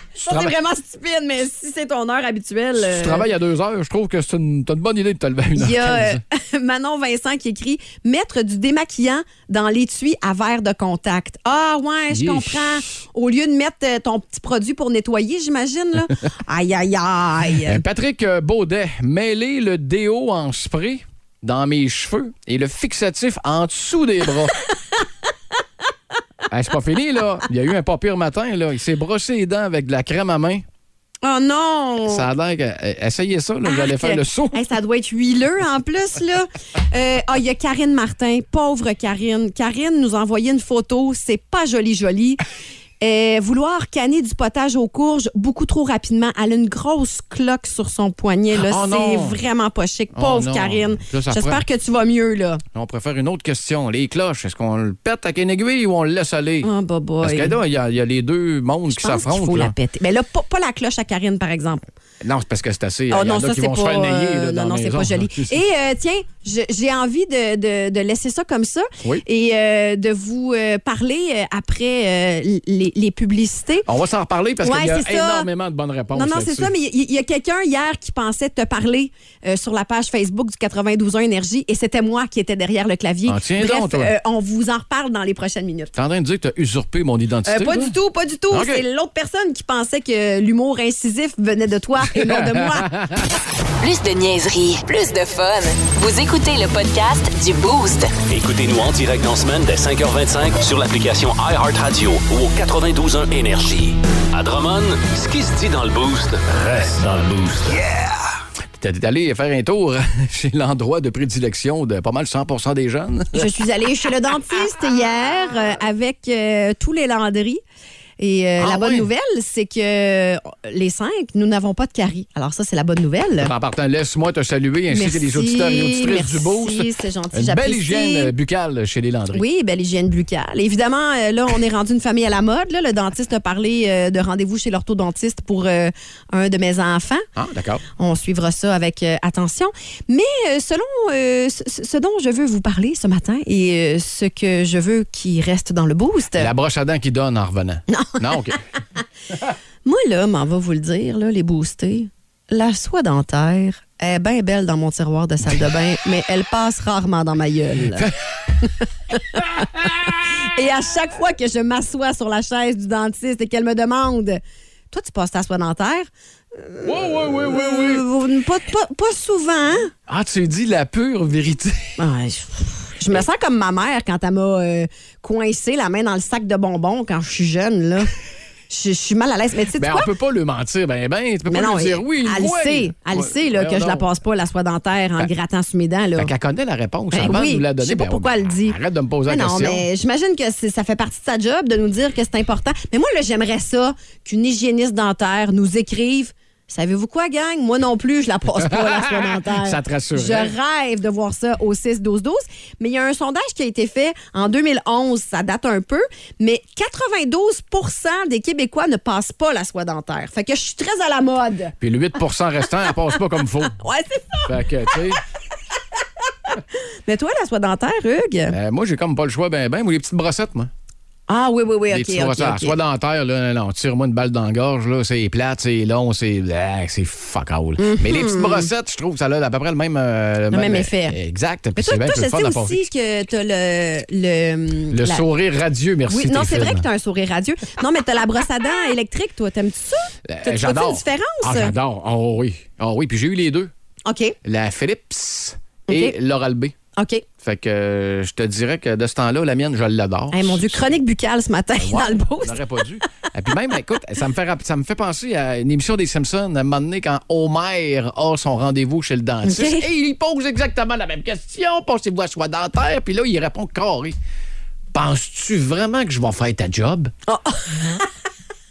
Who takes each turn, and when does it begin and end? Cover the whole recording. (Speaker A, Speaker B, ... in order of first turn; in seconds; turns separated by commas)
Speaker A: 0.2-3.2, Speaker B: 0.2-0.6, Speaker B: 2.8-6.2, Speaker A: 5.6-17.8, Speaker B: 12.1-12.9, Speaker B: 17.6-24.6, Speaker B: 26.5-30.6, Speaker A: 31.2-32.3, Speaker B: 32.1-34.6, Speaker A: 33.6-42.4, Speaker A: 43.0-52.6, Speaker B: 48.5-49.4, Speaker B: 50.1-51.6, Speaker B: 52.7-56.7, Speaker A: 56.6-57.6, Speaker B: 57.2-59.7, Speaker A: 58.9-61.8, Speaker B: 62.2-65.6, Speaker A: 63.1-73.9, Speaker B: 73.8-76.7, Speaker A: 74.6-75.5, Speaker A: 76.1-85.9, Speaker B: 83.3-84.1, Speaker B: 85.9-88.0, Speaker A: 87.5-93.0, Speaker B: 88.5-88.8, Speaker B: 92.1-93.3, Speaker C: 93.8-98.2, Speaker D: 98.3-108.1, Speaker B: 108.7-113.5, Speaker A: 113.3-117.6, Speaker A: 118.2-123.5, Speaker B: 118.6-119.1, Speaker B: 123.4-129.4, Speaker A: 124.9-128.3, Speaker A: 129.3-137.2, Speaker B: 137.3-137.8, Speaker A: 137.9-146.5, Speaker B: 146.3-148.6, Speaker A: 147.9-148.2, Speaker A: 149.8-158.1, Speaker B: 157.9-158.2, Speaker A: 158.6-169.9, Speaker B: 159.3-160.4, Speaker B: 166.8-168.1, Speaker B: 170.1-172.0, Speaker A: 172.0-178.1, Speaker A: 178.7-180.1, Speaker B: 179.7-184.1, Speaker A: 181.5-186.3, Speaker B: 186.2-189.8, Speaker A: 187.1-211.7, Speaker B: 198.6-200.5, Speaker B: 211.8-213.8, Speaker A: 213.8-215.0, Speaker B: 214.4-215.2, Speaker A: 216.5-218.6, Speaker B: 218.5-220.7, Speaker A: 221.3-222.8, Speaker B: 221.9-232.8, Speaker A: 227.8-228.7, Speaker A: 230.5-231.2, Speaker A: 231.8-235.2, Speaker B: 234.9-236.9, Speaker A: 236.1-241.7, Speaker B: 240.2-243.7, Speaker A: 244.1-244.3, Speaker B: 244.4-246.7, Speaker A: 245.9-246.2, Speaker A: 246.9-247.2, Speaker B: 247.4-250.9, Speaker A: 250.3-252.8, Speaker B: 251.8-264.2, Speaker A: 259.4-259.9, Speaker B: 264.9-267.1, Speaker A: 267.3-268.1